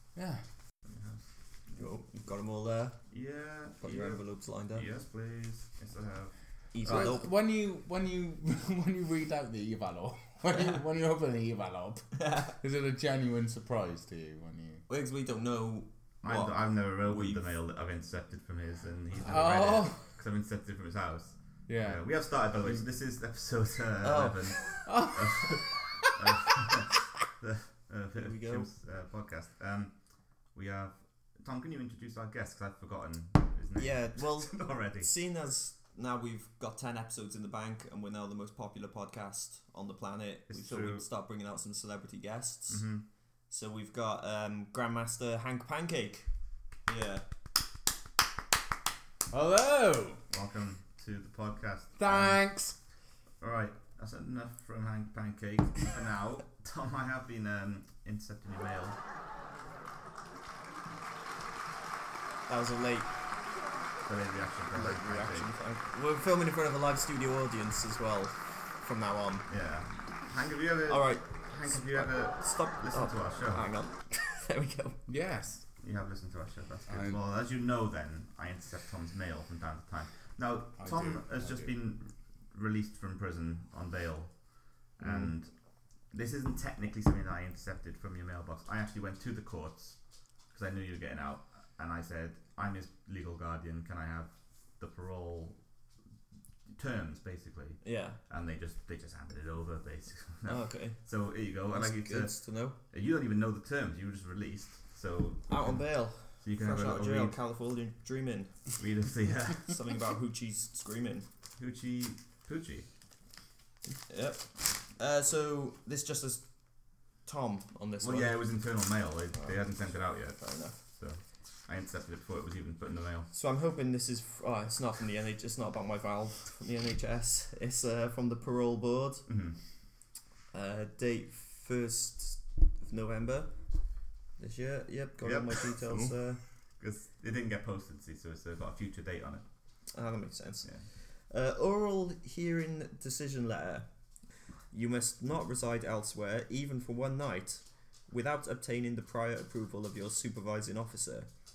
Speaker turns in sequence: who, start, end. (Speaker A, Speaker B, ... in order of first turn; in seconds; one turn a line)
Speaker A: 0.1-0.4
Speaker B: 0.8-1.2
Speaker C: 1.8-3.0
Speaker B: 3.1-6.3
Speaker C: 3.8-4.8
Speaker C: 6.7-7.3
Speaker A: 6.8-14.8
Speaker C: 12.2-12.5
Speaker C: 14.9-17.4
Speaker B: 16.2-29.9
Speaker A: 19.2-20.0
Speaker A: 21.7-22.0
Speaker C: 24.0-24.8
Speaker A: 24.8-26.2
Speaker C: 28.1-28.7
Speaker B: 30.5-35.1
Speaker C: 33.8-42.9
Speaker B: 40.5-41.0
Speaker B: 42.7-43.0
Speaker C: 43.5-46.3
Speaker C: 46.9-47.2
Speaker A: 49.3-50.2
Speaker B: 50.3-52.5
Speaker A: 52.0-52.8
Speaker B: 53.4-59.0
Speaker C: 62.5-63.1
Speaker B: 64.0-65.5
Speaker C: 64.7-69.5
Speaker B: 69.5-73.7
Speaker C: 70.9-75.0
Speaker A: 75.1-75.6
Speaker B: 75.8-84.4
Speaker A: 76.9-77.2
Speaker A: 80.8-81.7
Speaker B: 84.9-85.5
Speaker B: 86.1-90.0
Speaker B: 90.5-95.6
Speaker B: 96.7-107.3
Speaker C: 97.8-98.2
Speaker C: 100.5-101.0
Speaker C: 101.7-102.8
Speaker C: 105.5-108.7
Speaker B: 108.8-109.7
Speaker C: 109.7-111.3
Speaker B: 111.6-112.9
Speaker C: 114.1-118.4
Speaker B: 118.0-123.3
Speaker C: 119.4-119.7
Speaker C: 120.2-120.8
Speaker C: 123.3-129.3
Speaker B: 129.3-129.6
Speaker C: 130.5-133.5
Speaker C: 134.4-136.4
Speaker B: 135.2-136.1
Speaker B: 136.8-139.4
Speaker C: 139.9-143.9
Speaker C: 144.7-151.3